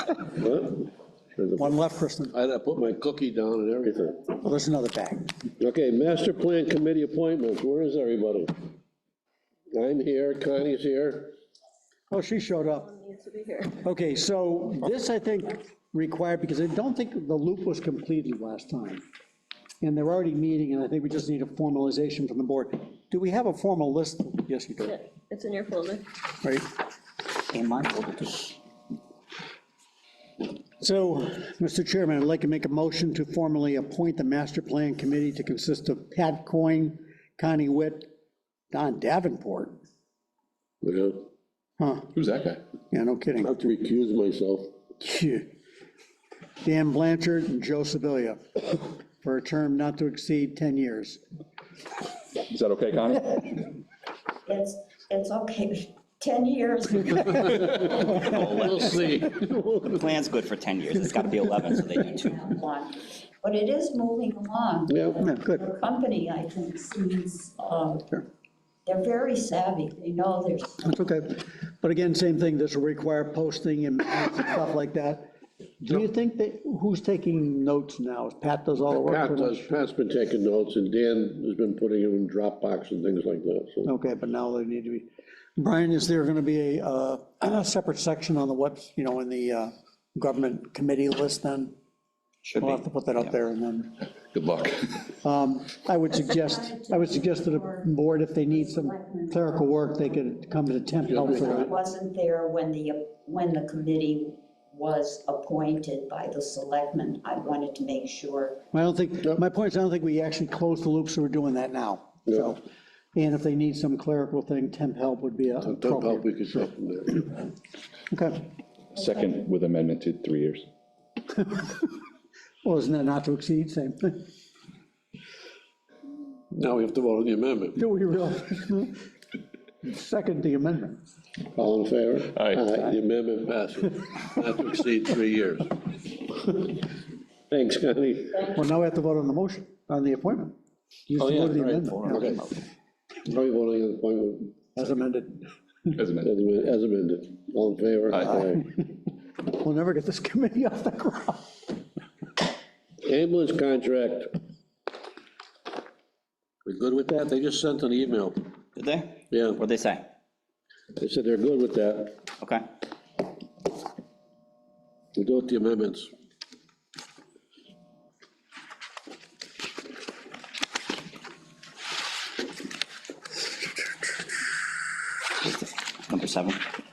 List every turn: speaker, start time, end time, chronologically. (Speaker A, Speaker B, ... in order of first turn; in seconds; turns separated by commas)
Speaker A: 0.4-1.8, Speaker B: 1.6-2.3, Speaker A: 2.3-4.3, Speaker B: 4.3-5.3, Speaker A: 5.6-8.5, Speaker A: 9.7-11.4, Speaker B: 12.1-12.9, Speaker C: 12.8-13.8, Speaker B: 13.8-19.0, Speaker B: 19.8-25.0, Speaker C: 24.8-26.0, Speaker D: 27.5-28.5, Speaker B: 30.8-38.1, Speaker B: 38.7-39.8, Speaker A: 40.8-41.3, Speaker B: 41.8-42.1, Speaker E: 42.1-42.6, Speaker B: 42.9-43.5, Speaker A: 43.4-44.7, Speaker B: 45.0-45.5, Speaker B: 46.6-51.2, Speaker E: 52.5-53.7, Speaker F: 54.5-58.3, Speaker A: 57.4-60.1, Speaker D: 58.2-59.3, Speaker D: 59.9-62.4, Speaker F: 61.9-68.2, Speaker A: 64.9-65.2, Speaker B: 65.2-65.6, Speaker F: 68.8-70.9, Speaker B: 70.8-75.3, Speaker B: 75.8-79.7, Speaker A: 78.9-83.9, Speaker B: 83.8-91.8, Speaker D: 92.5-93.3, Speaker B: 92.6-94.0, Speaker E: 94.3-95.1, Speaker B: 95.1-101.7, Speaker F: 96.1-97.9, Speaker F: 98.5-100.1, Speaker A: 101.1-101.7, Speaker F: 101.2-108.6, Speaker B: 108.7-112.6, Speaker B: 113.2-116.7, Speaker A: 115.6-117.5, Speaker B: 118.1-118.5, Speaker E: 119.0-120.7, Speaker B: 121.5-121.9, Speaker B: 122.6-124.2, Speaker A: 126.5-127.8, Speaker B: 127.8-129.0, Speaker B: 129.8-131.0, Speaker A: 131.5-135.8, Speaker E: 132.4-132.6, Speaker A: 137.5-138.5, Speaker B: 138.5-140.6, Speaker B: 141.1-142.2, Speaker A: 141.1-142.5, Speaker D: 141.8-142.6, Speaker A: 143.2-144.6, Speaker B: 144.8-145.9, Speaker E: 145.9-146.3, Speaker A: 146.2-148.7, Speaker B: 148.8-151.6, Speaker A: 153.0-154.3, Speaker A: 156.7-158.4, Speaker D: 158.8-160.1, Speaker A: 159.3-159.6, Speaker A: 161.0-162.2, Speaker D: 162.4-162.7, Speaker A: 165.2-166.1, Speaker D: 175.4-176.7